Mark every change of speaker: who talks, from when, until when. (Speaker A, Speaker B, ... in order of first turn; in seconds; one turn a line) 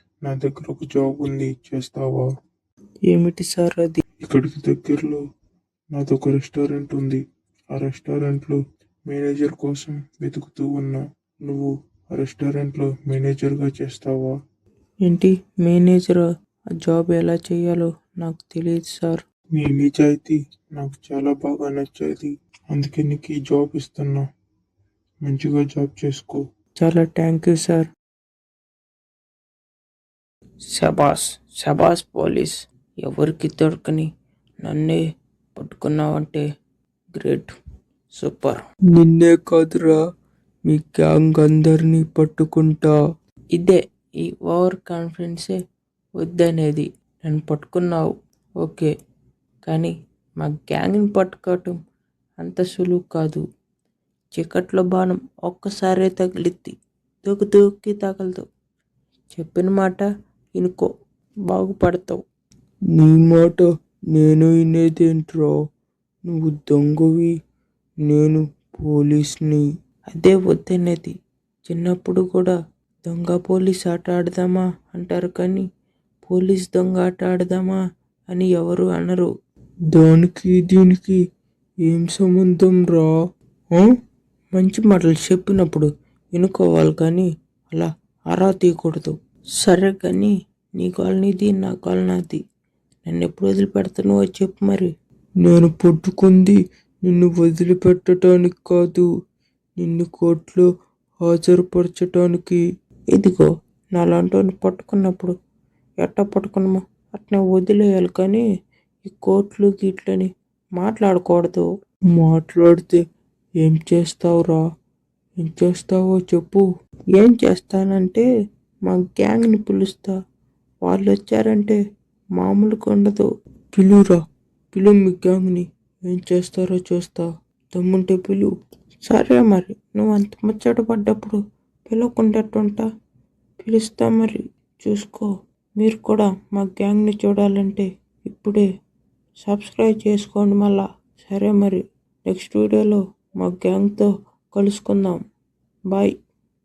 Speaker A: 0.2-2.3
Speaker B: 3.1-4.0
Speaker A: 4.2-5.2
Speaker A: 6.0-7.2
Speaker A: 7.7-14.3
Speaker B: 15.1-16.2
Speaker B: 16.8-19.2
Speaker A: 19.6-24.2
Speaker A: 25.3-26.4
Speaker B: 26.8-27.9
Speaker B: 30.7-34.1
Speaker B: 34.6-35.0
Speaker B: 35.6-36.4
Speaker B: 37.2-37.5
Speaker B: 38.1-40.0
Speaker B: 40.7-43.0
Speaker B: 43.5-45.6
Speaker B: 46.2-48.9
Speaker B: 49.7-51.8
Speaker B: 52.4-53.4
Speaker B: 54.4-58.5
Speaker B: 59.3-60.0
Speaker B: 60.6-60.9
Speaker B: 61.5-62.2
Speaker B: 63.0-65.5
Speaker B: 66.3-67.3
Speaker B: 68.1-71.1
Speaker B: 71.7-75.6
Speaker B: 76.3-77.8
Speaker B: 78.3-79.3
Speaker B: 79.9-81.2
Speaker B: 81.9-83.2
Speaker B: 84.5-92.4
Speaker B: 93.1-94.9
Speaker B: 95.4-99.1
Speaker B: 99.8-100.7
Speaker B: 101.2-102.6
Speaker B: 103.1-105.3
Speaker B: 106.0-108.4
Speaker B: 109.0-113.0
Speaker B: 113.6-114.6
Speaker B: 115.4-118.3
Speaker B: 118.9-120.2
Speaker B: 120.8-121.8
Speaker B: 122.4-124.2
Speaker B: 124.7-128.5
Speaker B: 129.1-132.8
Speaker B: 133.6-138.7
Speaker B: 139.4-145.2